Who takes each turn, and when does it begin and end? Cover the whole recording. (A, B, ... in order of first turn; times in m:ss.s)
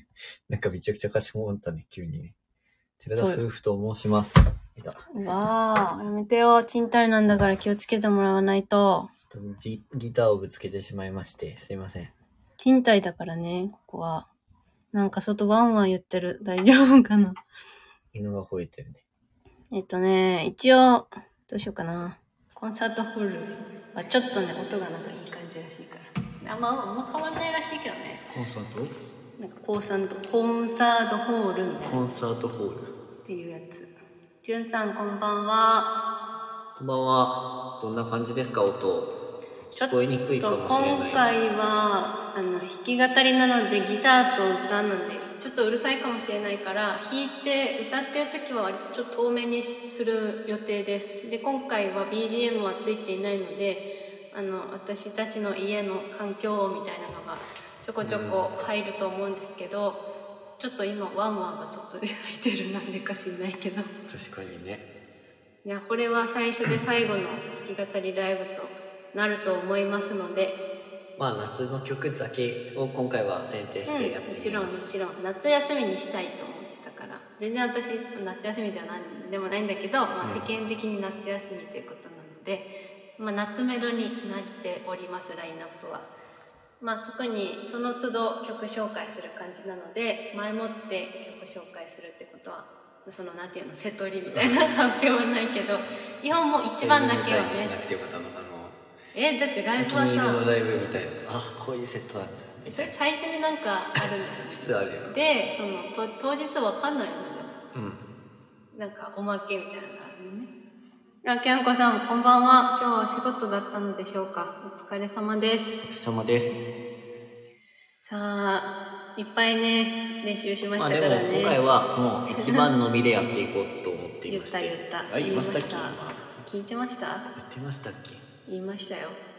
0:00.5-0:02.3 A
0:03.0-0:05.0 A
0:03.2-0:03.4 B
0:05.1-0:09.1 B
0:09.3-0:12.1 A
0:12.6-0:14.3 B
0:14.9-0:17.4 B
0:18.1-0:19.0 A
0:19.7-0:28.2 B
0:28.3-0:28.9 A
0:29.4-0:32.0 B
0:31.8-0:32.9 A
0:33.2-0:33.9 B
0:34.4-0:35.9 B
0:36.8-0:39.1 A
0:39.7-0:41.4 A
0:39.7-1:00.0 B
0:58.0-0:58.4 A
1:00.6-1:03.9 B
1:04.1-1:04.8 A
1:05.6-1:10.6 B
1:11.2-1:14.9 A
1:13.9-1:26.1 B
1:26.8-1:37.7 B
1:36.8-1:38.8 A
1:39.1-1:40.4 B
1:39.8-1:42.9 A
1:42.7-1:47.6 B
1:44.0-1:45.1 A
1:47.7-1:48.0 A
1:48.7-1:50.5 B
1:51.2-1:55.8 B
1:55.8-1:56.7 A
1:58.0-2:01.6 B
2:00.8-2:06.3 A
2:02.3-2:02.7 B
2:04.3-2:07.3 B
2:07.3-2:08.2 A
2:08.5-2:09.2 B